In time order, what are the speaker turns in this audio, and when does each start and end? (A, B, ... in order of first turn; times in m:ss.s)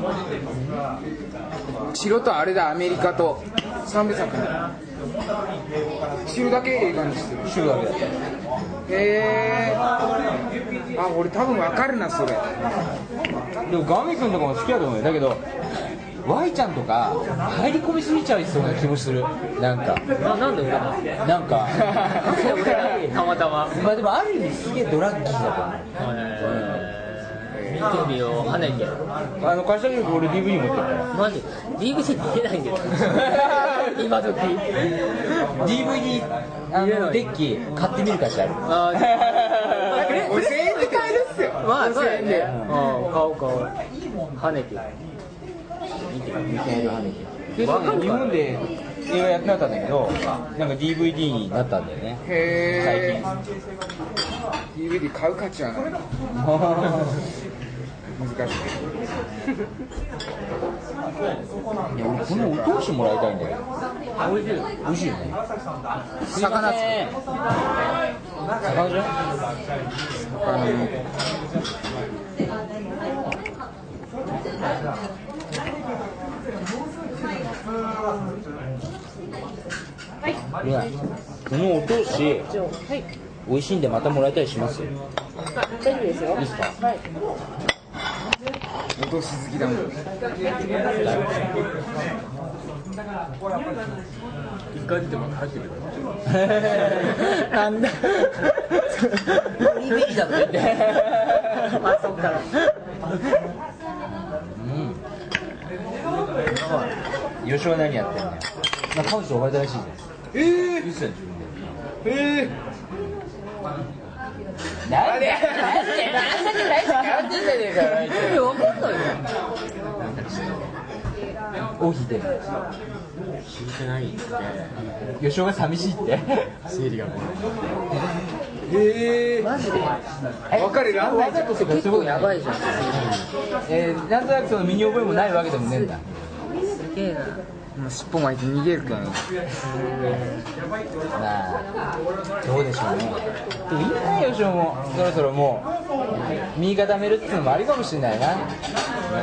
0:01.9-0:04.6 A
0:06.2-0:07.5 A
0:07.4-0:08.1 B
0:08.9-0:09.8 A
0:10.9-0:12.5 A
0:13.6-0:15.4 B
0:16.2-0:20.0 B
0:20.2-0:21.0 C
0:21.2-0:23.2 B
0:21.8-0:22.6 A
0:22.2-0:23.8 C
0:23.7-0:25.9 B
0:26.0-0:29.0 C
0:26.4-0:26.9 B
0:27.5-0:27.9 A
0:29.4-0:31.1 B
0:31.1-0:34.9 C
0:33.1-0:34.0 B
0:35.6-0:40.4 B
0:36.7-0:37.4 C
0:38.6-0:43.7 C
0:39.9-0:42.5 A
0:42.4-0:42.8 B
0:44.3-0:44.9 C
0:46.1-0:53.3 B
0:47.5-0:48.4 C
0:52.2-0:53.3 A
0:54.7-0:55.9 A
0:56.3-0:57.2 B
0:58.2-0:58.8 A
1:01.9-1:03.6 B
1:02.2-1:02.7 A
1:04.2-1:04.7 C
1:04.8-1:05.4 B
1:06.3-1:07.0 A
1:06.3-1:07.1 B
1:08.6-1:09.1 B
1:10.4-1:11.0 A
1:20.6-1:20.9 B
1:21.5-1:22.5 B
1:22.5-1:23.1 D
1:23.4-1:24.9 B
1:25.6-1:27.0 D
1:26.4-1:26.7 B
1:29.0-1:29.9 A
1:34.7-1:36.0 E
1:36.3-1:37.4 B
1:36.8-1:39.6 A
1:39.5-1:41.8 B
1:41.7-1:42.5 C
1:44.0-1:45.0 B
1:46.5-1:46.9 C
1:47.4-1:52.5 B
1:50.3-1:50.9 A
1:52.1-1:52.5 A
1:54.8-1:59.0 B
1:55.0-1:57.4 A
1:55.6-1:56.5 C
1:58.0-1:59.2 C
2:00.0-2:00.7 E
2:01.8-2:02.4 B
2:03.5-2:04.9 E
2:05.2-2:06.5 B
2:06.6-2:07.5 E
2:08.9-2:09.4 A
2:09.4-2:10.0 C
2:10.5-2:12.4 B
2:10.5-2:11.5 A
2:11.1-2:13.2 C
2:12.9-2:13.3 E
2:13.6-2:16.1 B
2:15.6-2:15.9 C
2:16.7-2:17.4 C
2:17.8-2:19.2 A
2:19.6-2:20.3 C
2:21.1-2:21.7 B
2:22.4-2:25.7 B
2:26.5-2:28.5 B